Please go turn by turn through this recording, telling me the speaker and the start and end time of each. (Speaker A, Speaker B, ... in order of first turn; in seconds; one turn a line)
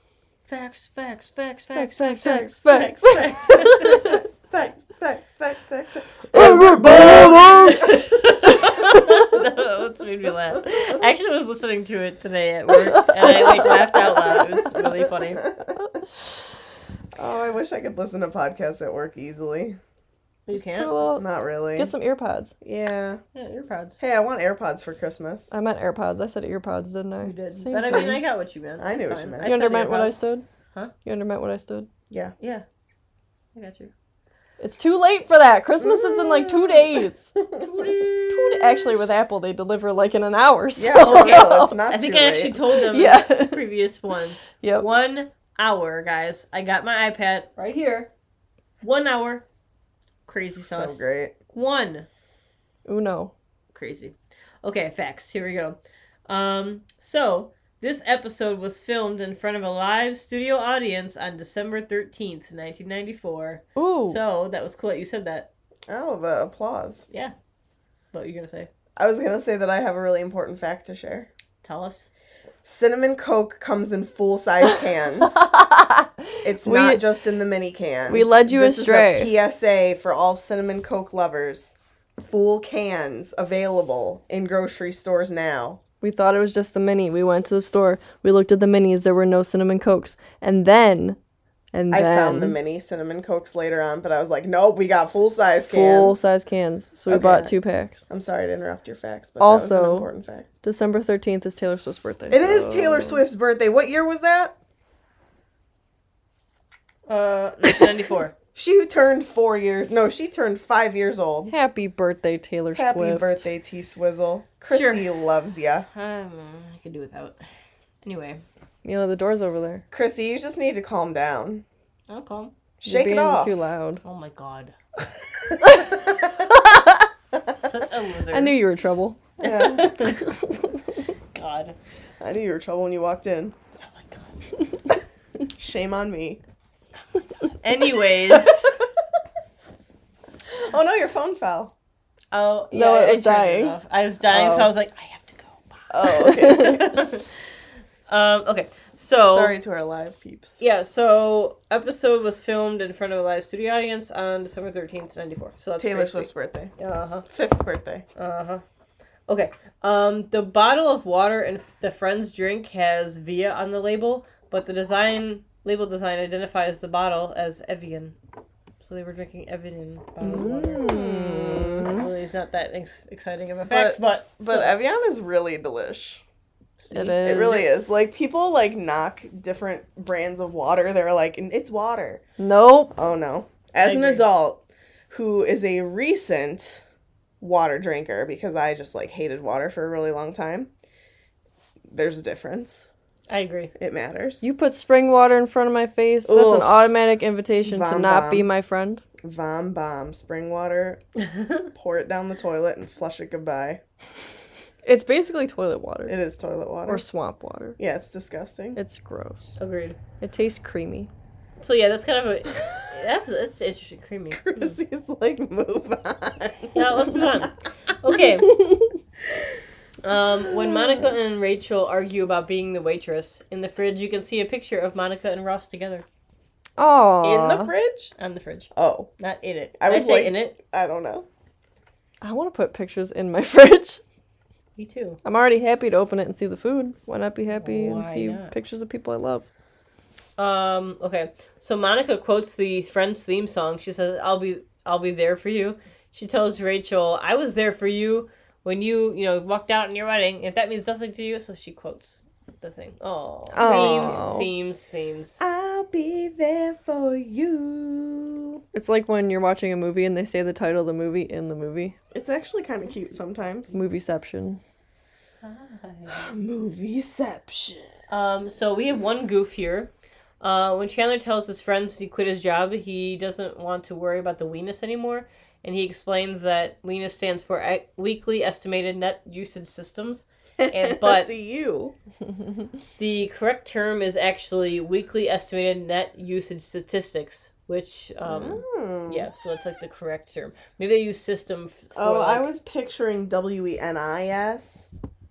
Speaker A: 0.5-4.2
Speaker B: 1.7-3.7
Speaker C: 3.6-7.8
Speaker B: 6.3-8.0
Speaker A: 6.3-15.4
Speaker B: 8.7-9.0
Speaker B: 13.0-13.7
Speaker C: 14.1-15.7
Speaker C: 17.1-19.8
Speaker A: 20.5-20.9
Speaker B: 20.5-22.5
Speaker C: 21.2-21.9
Speaker C: 22.6-23.2
Speaker A: 23.3-24.0
Speaker C: 24.0-25.5
Speaker B: 25.5-28.2
Speaker A: 27.2-30.1
Speaker C: 28.8-29.5
Speaker B: 29.4-30.4
Speaker B: 31.0-31.9
Speaker A: 32.4-32.6
Speaker A: 33.5-33.9
Speaker B: 34.6-37.4
Speaker C: 35.8-39.0
Speaker B: 38.3-41.7
Speaker C: 40.8-42.6
Speaker A: 40.9-48.1
Speaker B: 42.9-43.6
Speaker B: 44.6-44.9
Speaker A: 48.8-49.4
Speaker A: 50.3-52.1
Speaker C: 50.5-51.4
Speaker B: 52.9-53.3
Speaker A: 53.7-65.5
Speaker B: 63.8-64.2
Speaker C: 65.9-67.0
Speaker A: 68.1-68.7
Speaker C: 69.0-71.3
Speaker A: 71.6-72.1
Speaker C: 72.6-75.5
Speaker B: 75.4-77.0
Speaker C: 76.4-85.8
Speaker B: 78.1-79.3
Speaker B: 86.0-91.2
Speaker B: 91.7-92.6
Speaker C: 91.9-96.2
Speaker B: 95.7-98.0
Speaker C: 97.1-97.5
Speaker C: 98.1-100.5
Speaker B: 99.4-100.1
Speaker B: 100.6-103.2
Speaker C: 102.3-104.5
Speaker A: 107.1-108.3
Speaker C: 108.5-111.5
Speaker B: 111.5-113.4
Speaker C: 112.7-115.9
Speaker A: 114.7-115.1
Speaker A: 115.9-117.4
Speaker A: 118.0-118.4
Speaker B: 118.8-119.8
Speaker C: 119.9-121.6
Speaker A: 122.1-122.5
Speaker C: 122.8-123.5
Speaker B: 122.8-124.0
Speaker A: 124.0-124.7
Speaker C: 125.7-126.3
Speaker B: 126.7-127.0
Speaker A: 127.6-128.5
Speaker B: 128.3-129.2
Speaker C: 129.4-130.0
Speaker A: 129.4-130.2
Speaker A: 131.3-131.8
Speaker C: 132.2-133.6
Speaker A: 133.8-134.3
Speaker C: 135.6-136.4
Speaker A: 137.6-138.7
Speaker C: 140.5-141.7
Speaker A: 142.3-147.3
Speaker B: 142.7-143.7
Speaker C: 144.3-144.7
Speaker C: 145.9-146.9
Speaker B: 146.2-146.8
Speaker A: 148.1-149.5
Speaker C: 149.2-150.6
Speaker A: 150.6-157.2
Speaker C: 155.8-156.7
Speaker C: 157.3-158.0
Speaker A: 158.2-158.6
Speaker A: 159.3-168.2
Speaker A: 168.8-170.9
Speaker B: 170.2-172.1
Speaker C: 170.3-171.9
Speaker A: 171.6-174.8
Speaker C: 173.7-176.2
Speaker A: 176.8-177.9
Speaker B: 176.9-177.6
Speaker C: 177.2-182.2
Speaker B: 182.4-182.9
Speaker C: 182.9-186.8
Speaker A: 183.8-184.2
Speaker C: 187.4-190.7
Speaker C: 191.9-192.9
Speaker A: 193.3-193.7
Speaker C: 193.8-194.5
Speaker B: 194.4-199.0
Speaker C: 196.2-196.8
Speaker C: 197.7-198.5
Speaker C: 199.2-201.0
Speaker A: 201.2-201.7
Speaker C: 201.7-203.8
Speaker B: 204.8-206.2
Speaker C: 206.1-207.0
Speaker B: 206.9-207.8
Speaker C: 207.8-208.8
Speaker B: 208.8-209.5
Speaker A: 209.6-210.0
Speaker B: 210.2-211.1
Speaker A: 211.6-214.8
Speaker C: 214.3-217.5
Speaker A: 216.7-218.6
Speaker B: 218.5-218.8
Speaker A: 220.0-226.0
Speaker C: 220.5-221.1
Speaker B: 226.8-227.7
Speaker C: 227.2-228.1
Speaker A: 228.2-230.6
Speaker C: 228.7-229.1
Speaker C: 229.8-231.3
Speaker B: 232.2-234.0
Speaker A: 234.8-235.2
Speaker B: 235.2-239.5
Speaker A: 237.5-238.5
Speaker A: 240.4-255.3
Speaker B: 253.5-254.5
Speaker C: 253.6-254.3
Speaker C: 255.4-258.6
Speaker B: 258.7-261.9
Speaker C: 262.1-263.8
Speaker B: 263.7-264.6
Speaker A: 265.4-266.3
Speaker C: 266.1-267.9
Speaker A: 268.1-281.3
Speaker C: 280.6-281.9
Speaker A: 283.0-292.5
Speaker C: 288.2-289.3
Speaker C: 291.9-294.9